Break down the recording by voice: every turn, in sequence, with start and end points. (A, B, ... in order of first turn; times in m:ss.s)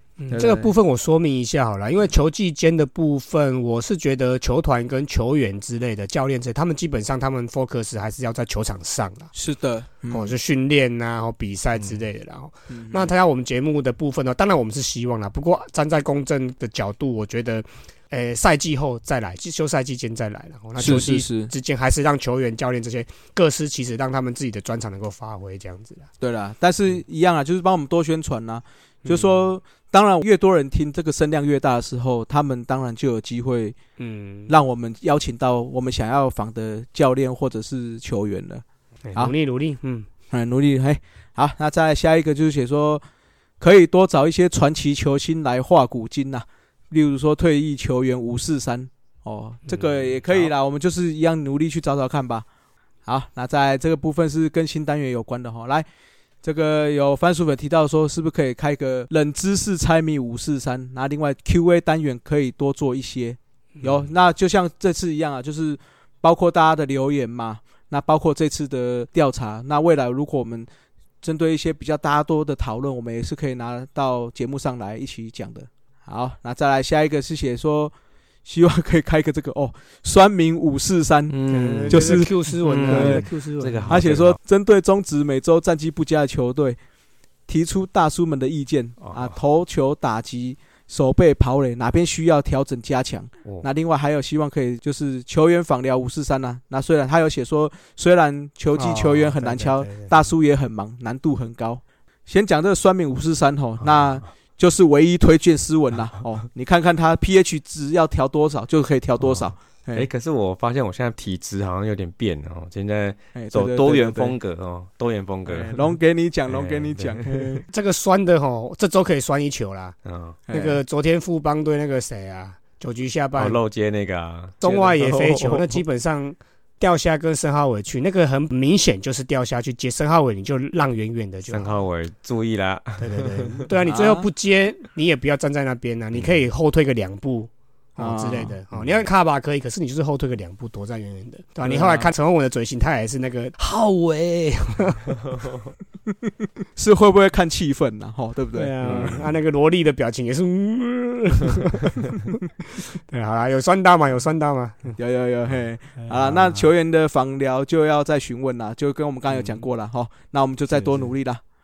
0:00.2-0:09.3 A
0:00.3-0:00.7 B
0:09.3-0:10.3 B
0:10.1-0:26.1 A
0:12.7-0:13.1 B
0:20.8-0:21.5 B
0:26.2-0:33.8 B
0:29.0-0:29.5 A
0:34.0-0:34.5 A
0:34.5-0:39.3 B
0:39.0-0:40.1 A
0:40.3-0:43.0 B
0:43.6-0:52.5 B
0:49.7-0:50.2 A
0:53.0-0:55.9 B
0:56.4-1:10.7 B
1:11.2-1:23.2 B
1:21.3-1:24.4 C
1:21.5-1:24.0 A
1:23.9-1:26.8 B
1:27.4-1:50.1 B
1:29.0-1:29.4 C
1:38.8-1:40.3 A
1:43.9-1:44.1 C
1:49.2-1:55.9 C
1:53.4-1:54.4 B
1:55.5-1:57.6 B
1:56.5-1:57.4 C
1:57.6-2:00.0 A
2:00.0-2:00.4 C
2:00.5-2:00.8 B
2:00.5-2:03.6 A
2:03.4-2:05.8 C
2:04.6-2:11.8 A
2:11.5-2:13.6 C
2:13.0-2:25.2 A
2:13.9-2:14.3 B
2:18.0-2:18.6 B
2:18.7-2:19.0 C
2:21.6-2:22.1 B
2:26.8-2:29.2 B
2:28.5-2:32.0 A
2:28.8-2:29.2 C
2:33.1-2:35.0 A
2:35.0-2:41.4 B
2:36.0-2:36.7 A
2:39.3-2:39.6 A
2:40.7-2:41.1 A